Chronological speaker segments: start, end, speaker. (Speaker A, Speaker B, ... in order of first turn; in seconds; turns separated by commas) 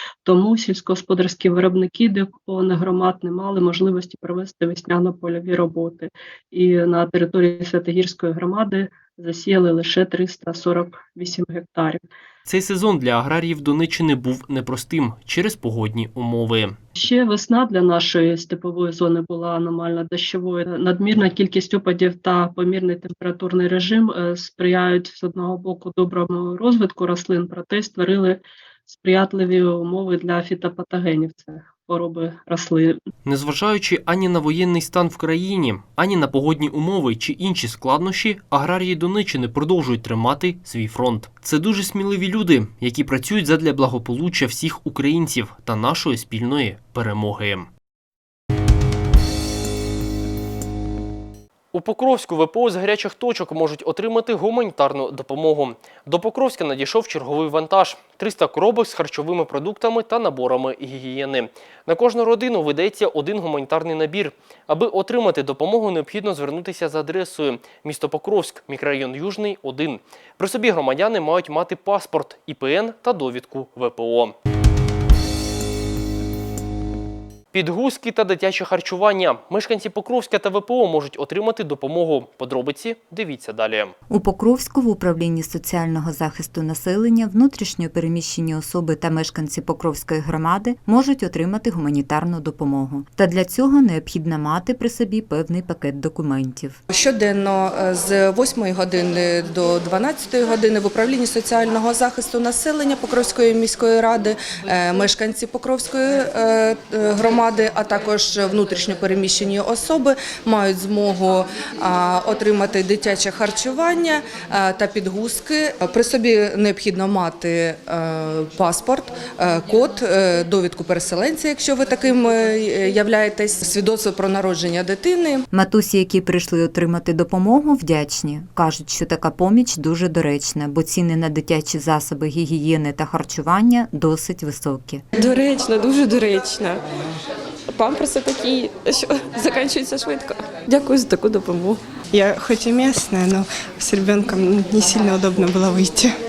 Speaker A: 0.2-12.1, Speaker B: 12.5-16.8, Speaker A: 17.0-33.0, Speaker B: 33.2-47.7, Speaker B: 51.7-74.3, Speaker B: 77.5-83.9, Speaker C: 84.1-96.8, Speaker D: 96.9-125.5, Speaker C: 125.5-135.0, Speaker E: 135.2-136.8, Speaker E: 137.7-141.8, Speaker F: 142.1-146.1